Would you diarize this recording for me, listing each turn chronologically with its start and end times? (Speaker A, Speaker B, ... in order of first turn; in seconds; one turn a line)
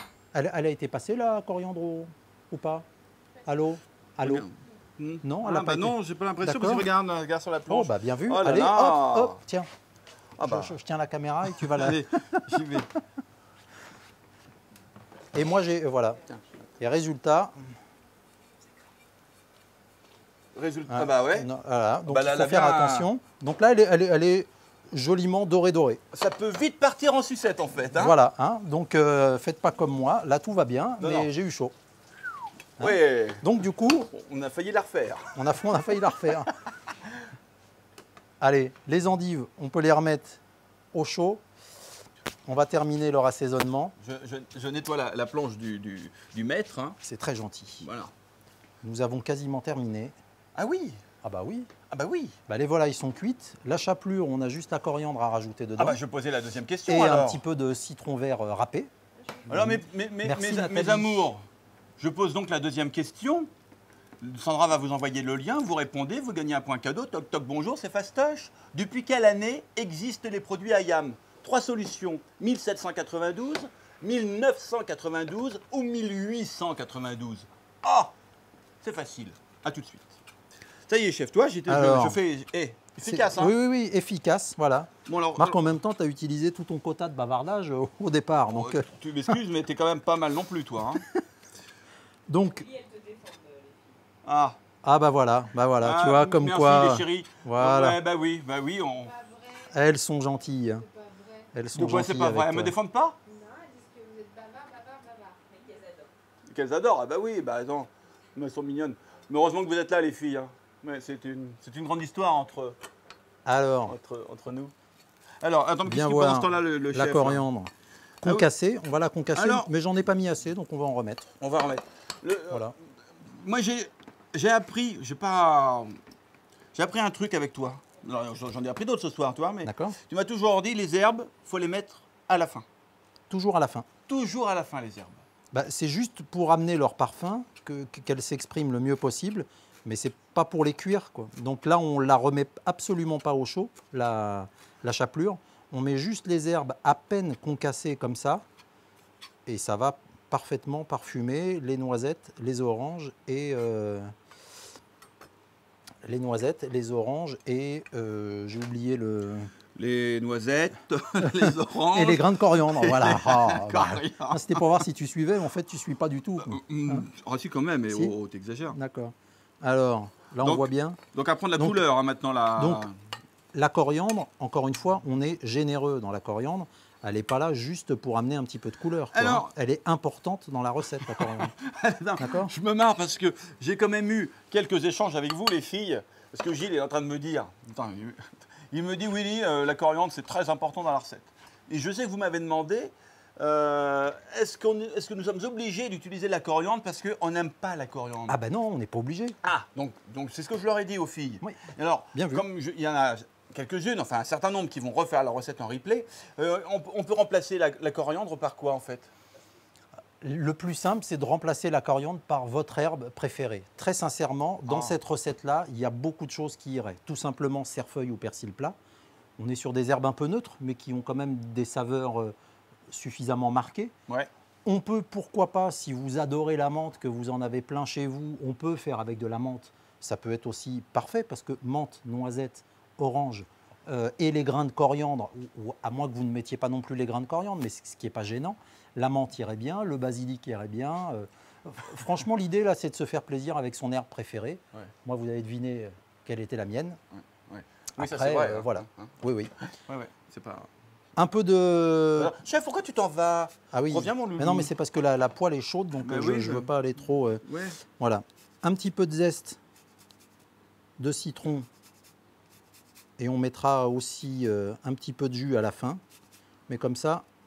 Speaker A: 0.3-2.9
Speaker A: 3.5-4.5
Speaker B: 4.2-9.4
Speaker A: 5.2-6.9
Speaker A: 7.7-9.7
Speaker B: 10.4-10.8
Speaker A: 10.4-12.8
Speaker B: 11.6-12.9
Speaker A: 15.3-16.2
Speaker A: 16.8-17.5
Speaker B: 20.6-21.5
Speaker A: 20.9-26.0
Speaker B: 22.1-23.1
Speaker B: 26.1-28.2
Speaker A: 27.9-31.8
Speaker B: 31.0-31.3
Speaker B: 32.8-33.5
Speaker A: 32.8-34.1
Speaker B: 34.1-35.4
Speaker A: 35.4-36.5
Speaker A: 38.4-40.4
Speaker A: 40.9-41.4
Speaker A: 42.5-44.0
Speaker B: 44.0-47.0
Speaker A: 47.0-47.9
Speaker B: 47.8-48.1
Speaker A: 48.8-50.1
Speaker B: 50.6-51.0
Speaker A: 51.2-51.7
Speaker B: 51.9-52.4
Speaker A: 52.5-56.0
Speaker B: 55.8-57.4
Speaker A: 56.9-58.9
Speaker A: 59.5-61.3
Speaker B: 59.5-61.4
Speaker B: 62.0-63.5
Speaker B: 64.2-78.1
Speaker B: 78.8-80.2
Speaker B: 80.9-83.5
Speaker A: 81.7-82.2
Speaker A: 83.1-88.8
Speaker B: 85.1-85.7
Speaker B: 88.5-91.0
Speaker A: 92.3-92.7
Speaker C: 92.4-94.0
Speaker B: 94.2-94.6
Speaker A: 94.8-98.0
Speaker B: 95.8-99.2
Speaker C: 99.0-99.8
Speaker A: 99.7-100.8
Speaker C: 100.7-101.5
Speaker A: 101.5-102.7
Speaker B: 101.8-103.2
Speaker C: 103.2-106.1
Speaker B: 106.5-112.8
Speaker A: 113.5-114.0
Speaker B: 113.9-114.7
Speaker B: 115.4-117.4
Speaker A: 115.8-117.7
Speaker A: 118.2-121.3
Speaker B: 119.3-119.7
Speaker B: 121.4-126.0
Speaker B: 126.8-132.7
Speaker A: 129.7-130.0
Speaker A: 133.3-133.9
Speaker B: 134.1-135.2
Speaker A: 135.5-148.4
Speaker A: 149.5-154.1
Speaker A: 156.0-159.5
Speaker B: 159.8-164.7
Speaker A: 161.2-167.1
Speaker B: 166.5-168.8
Speaker A: 167.9-168.1
Speaker A: 168.7-171.0
Speaker B: 170.4-172.9
Speaker A: 172.6-172.8
Speaker A: 173.5-181.5
Speaker B: 179.1-179.5
Speaker B: 181.0-198.4
Speaker A: 182.2-182.5
Speaker A: 198.3-199.4
Speaker B: 199.4-209.1
Speaker A: 202.1-202.4
Speaker A: 210.2-218.8
Speaker B: 214.7-215.0
Speaker A: 219.4-222.3
Speaker A: 222.9-223.9
Speaker A: 224.7-247.0
Speaker B: 247.1-250.7
Speaker A: 248.0-249.5
Speaker A: 251.2-252.3
Speaker B: 252.2-254.7
Speaker A: 253.7-259.6
Speaker B: 256.0-256.7
Speaker B: 257.4-257.8
Speaker A: 261.0-261.7
Speaker A: 263.2-266.0
Speaker A: 266.7-267.3